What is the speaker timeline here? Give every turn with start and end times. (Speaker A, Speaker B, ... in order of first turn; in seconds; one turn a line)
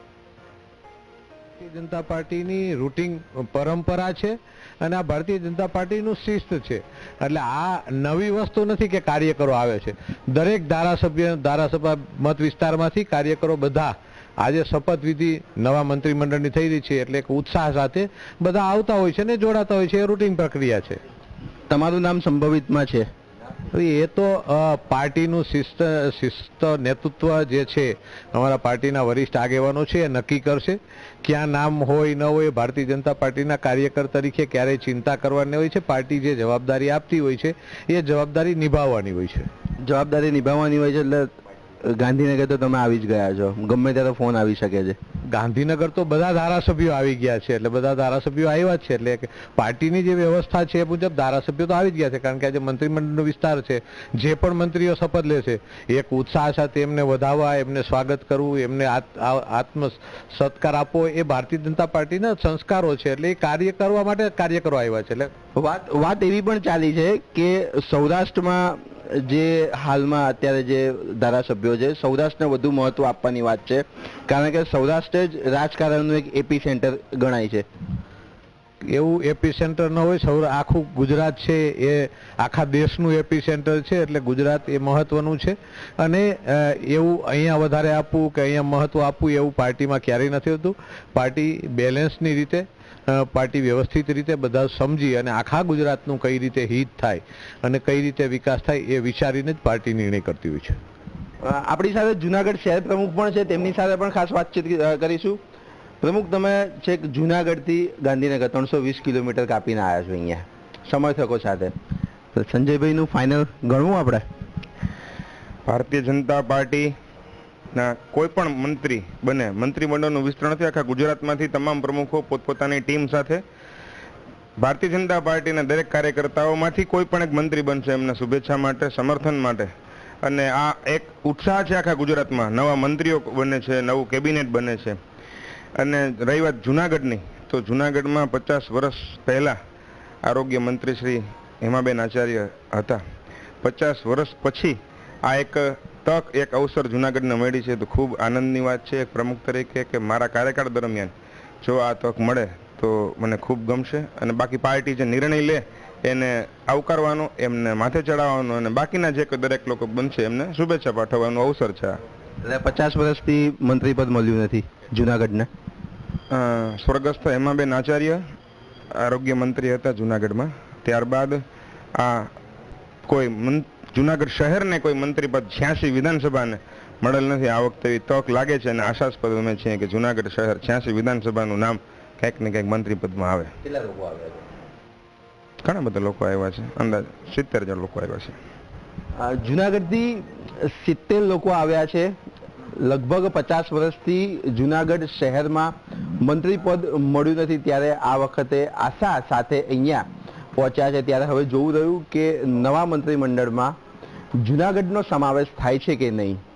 Speaker A: 1.6-21.0
Speaker B: 21.7-23.1
Speaker A: 23.7-39.5
Speaker B: 39.8-41.3
Speaker B: 41.8-45.0
Speaker A: 45.3-65.3
Speaker B: 65.5-77.7
Speaker A: 78.9-100.8
Speaker B: 101.4-105.4
Speaker B: 106.0-111.7
Speaker B: 112.3-114.2
Speaker C: 115.7-116.9
Speaker C: 117.7-123.4
Speaker C: 124.6-129.7
Speaker C: 130.2-135.0
Speaker C: 135.8-139.6
Speaker C: 140.2-143.0
Speaker C: 143.6-162.0
Speaker B: 162.4-165.5
Speaker C: 166.3-168.2
Speaker C: 169.0-171.4
Speaker C: 172.0-172.3
Speaker C: 173.1-183.5
Speaker B: 183.7-184.3
Speaker C: 185.6-188.3
Speaker B: 189.2-192.2
Speaker B: 192.8-203.8
Speaker B: 204.4-206.4